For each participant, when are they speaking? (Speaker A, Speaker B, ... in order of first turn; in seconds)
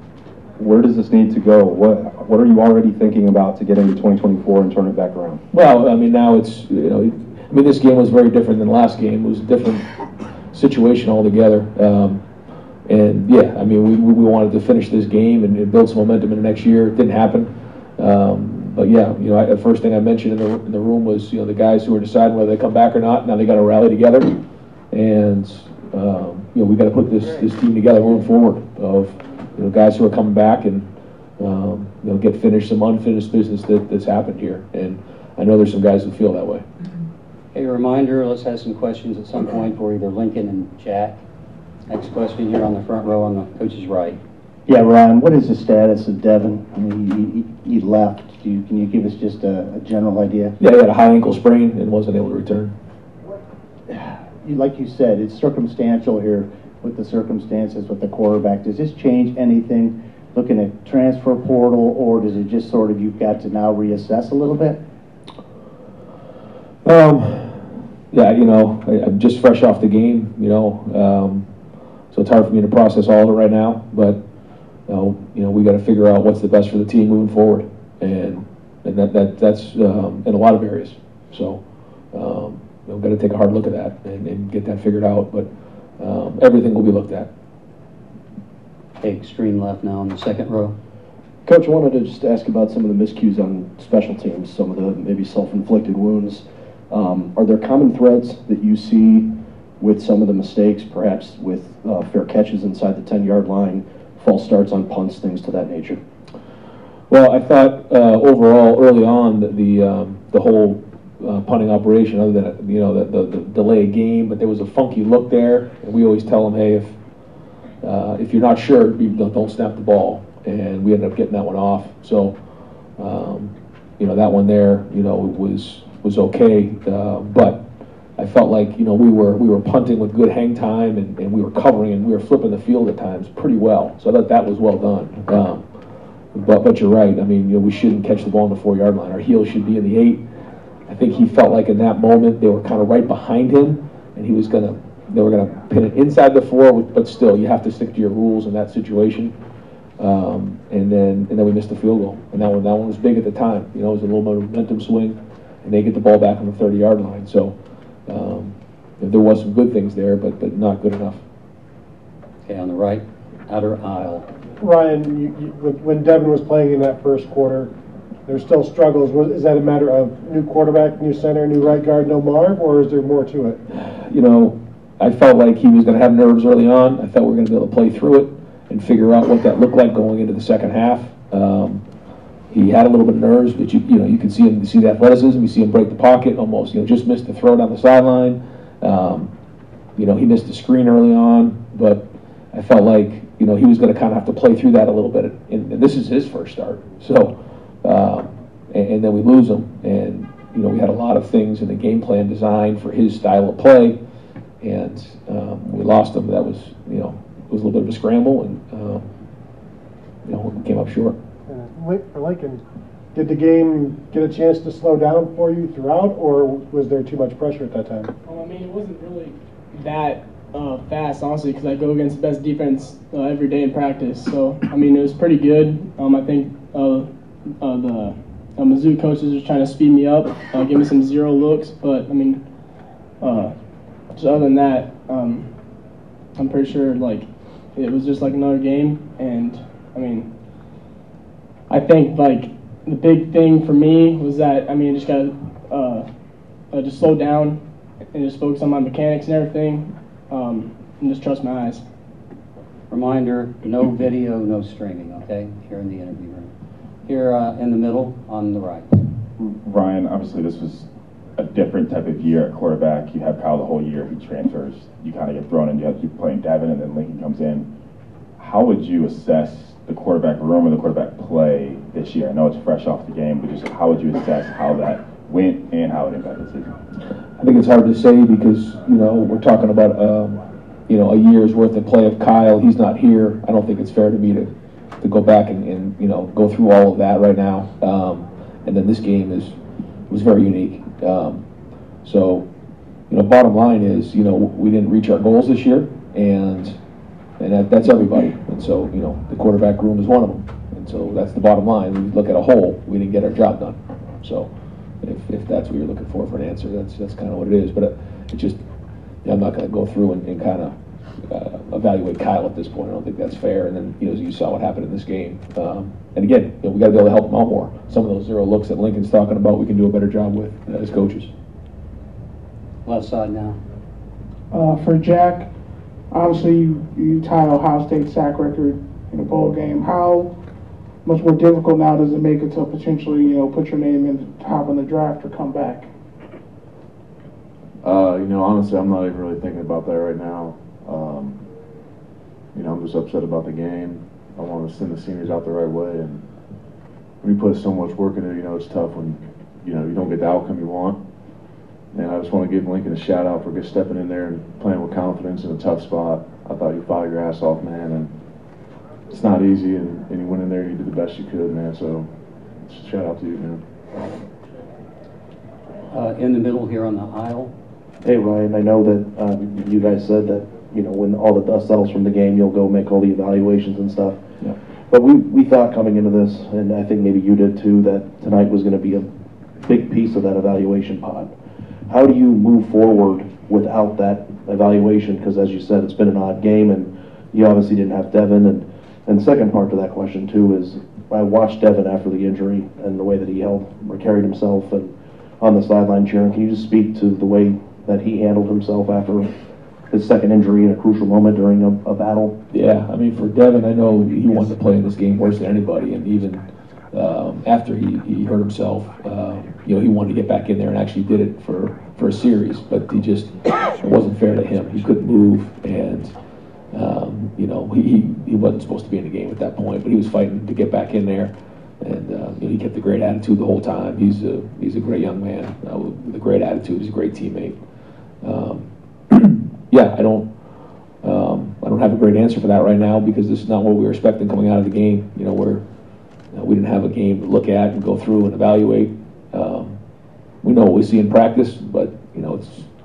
Speaker A: 0.6-5.4
Speaker B: 5.5-9.9, 10.5-12.2, 12.9-24.4, 24.9-36.6, 50.6-52.7, 66.8-71.5, 72.1-74.2, 74.9-87.3, 107.1-116.9, 117.8-122.3, 123.0-127.7, 128.2-135.7, 136.3-140.2, 140.8-149.3, 150.0-157.6, 158.1-161.2, 173.7-181.8, 182.5-189.3, 189.9-204.0, 204.6-209.1, 210.2-211.2, 277.4-289.6, 290.1-291.4, 292.0-292.5, 293.1-296.8, 297.4-304.5, 305.0-308.6, 309.2-321.3, 402.5-416.1, 416.7-427.6, 428.2-430.3, 431.0-435.6, 436.3-439.8, 440.4-442.7
Speaker C: 37.5-41.2, 41.9-44.2, 89.0-90.7, 162.4-164.3, 252.9-256.5, 257.0-259.0, 322.8-323.6, 365.9-367.5
Speaker D: 44.7-50.5, 53.9-64.8
Speaker E: 91.5-106.0
Speaker F: 164.6-167.7, 168.3-173.6, 211.5-212.6, 213.1-218.1
Speaker G: 218.2-232.4, 233.2-233.5, 234.1-235.5, 236.3-240.3, 241.7-246.1, 246.7-247.6, 248.1-251.8
Speaker H: 259.4-267.7, 268.4-276.7
Speaker I: 324.5-325.5, 326.1-330.3, 331.0-335.9
Speaker J: 337.8-341.4, 342.5-346.2, 347.2-351.0, 351.9-358.1, 359.1-362.1, 362.6-363.6
Speaker K: 368.0-374.2, 374.9-379.1, 379.6-381.3, 381.9-399.3, 399.9-402.4